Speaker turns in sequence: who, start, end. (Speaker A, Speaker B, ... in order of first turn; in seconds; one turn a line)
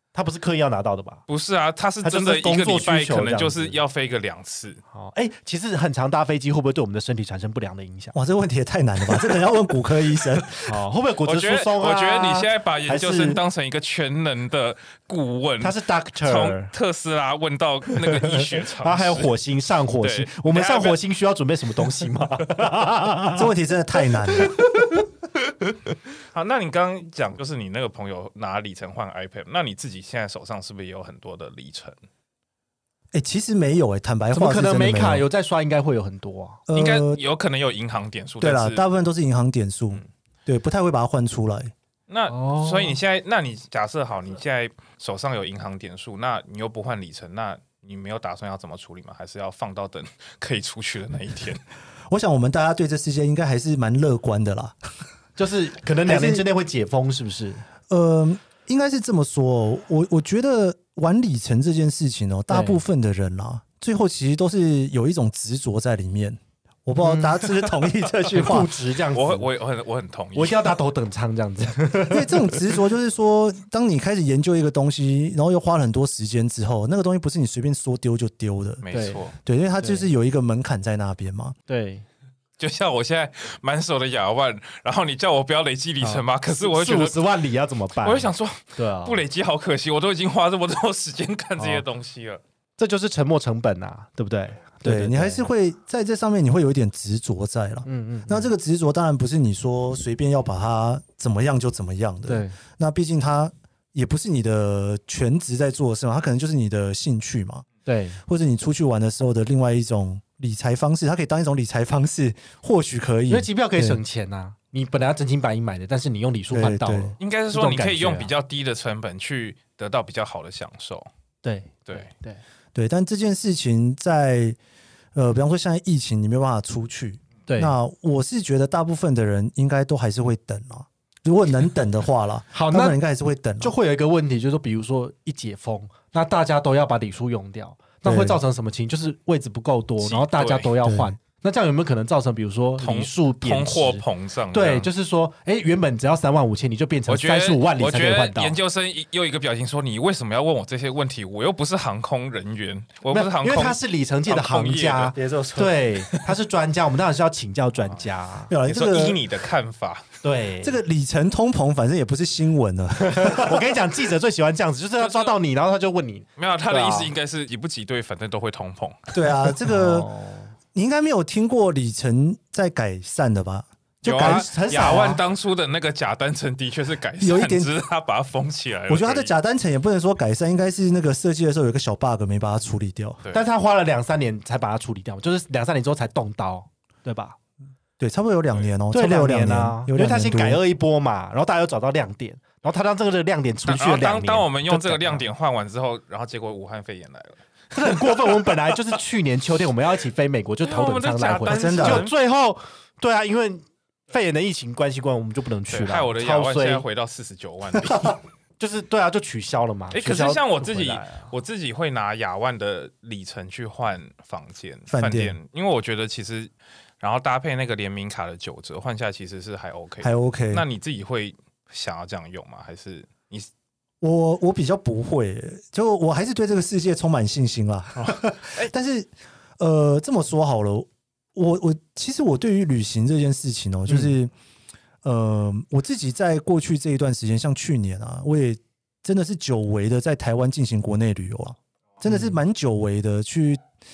Speaker A: 0.1-1.2
Speaker B: 1.3-4.8
Speaker A: 2.0-3.8
Speaker A: 4.9-8.2
Speaker C: 8.1-10.8
Speaker A: 10.6-13.4
Speaker B: 11.2-19.3
Speaker A: 15.6-16.7
Speaker A: 17.9-23.5
Speaker B: 20.0-21.0
Speaker C: 23.4-24.6
Speaker A: 24.1-25.0
Speaker B: 26.3-32.0
Speaker C: 33.1-35.3
Speaker A: 34.3-36.6
Speaker C: 36.7-37.2
Speaker B: 36.7-38.8
Speaker C: 38.4-41.7
Speaker B: 42.1-51.6
Speaker A: 42.3-43.0
Speaker C: 52.1-54.8
Speaker A: 55.4-57.7
Speaker C: 56.1-56.5
Speaker C: 57.9-68.7
Speaker A: 62.5-62.8
Speaker A: 67.0-67.5
Speaker A: 68.3-69.5
Speaker B: 69.1-70.8
Speaker A: 70.3-72.8
Speaker C: 72.1-78.8
Speaker B: 78.8-79.3
Speaker A: 78.9-79.3
Speaker C: 79.3-81.5
Speaker A: 79.8-80.1
Speaker A: 81.7-82.0
Speaker B: 82.6-87.2
Speaker A: 86.0-89.2
Speaker B: 88.0-92.4
Speaker A: 91.6-91.8
Speaker A: 92.8-95.5
Speaker C: 94.8-107.7
Speaker A: 97.9-98.5
Speaker A: 102.3-102.6
Speaker A: 107.9-108.2
Speaker C: 108.3-114.0
Speaker A: 113.3-118.3
Speaker C: 116.5-117.2
Speaker B: 117.2-121.1
Speaker A: 121.4-122.4
Speaker C: 122.8-124.6
Speaker C: 125.2-133.8
Speaker A: 127.5-127.8
Speaker A: 132.5-133.0
Speaker A: 133.6-148.6
Speaker C: 138.1-138.4
Speaker B: 140.0-140.7
Speaker C: 140.8-141.1
Speaker B: 142.8-144.9
Speaker B: 147.1-155.2
Speaker A: 153.1-158.5
Speaker C: 155.2-155.8
Speaker C: 158.5-159.2
Speaker B: 158.6-160.1
Speaker A: 160.2-160.8
Speaker C: 160.6-163.7
Speaker A: 163.0-167.1
Speaker B: 165.0-165.3
Speaker B: 166.4-169.1
Speaker C: 169.1-170.1
Speaker A: 169.6-170.5
Speaker C: 170.7-174.5
Speaker B: 174.0-179.3
Speaker A: 174.1-175.2
Speaker C: 177.2-177.7
Speaker C: 178.9-183.2
Speaker A: 183.3-187.4
Speaker C: 188.0-190.6
Speaker A: 188.9-195.2
Speaker B: 193.7-198.6
Speaker A: 197.8-206.8
Speaker B: 200.7-202.1
Speaker C: 201.5-202.1
Speaker B: 205.7-208.2
Speaker A: 208.6-211.3
Speaker B: 209.9-223.5
Speaker C: 214.9-215.4
Speaker C: 220.0-220.7
Speaker C: 224.0-234.3
Speaker B: 228.1-228.7
Speaker A: 233.9-234.2
Speaker C: 235.0-243.6
Speaker A: 242.1-242.4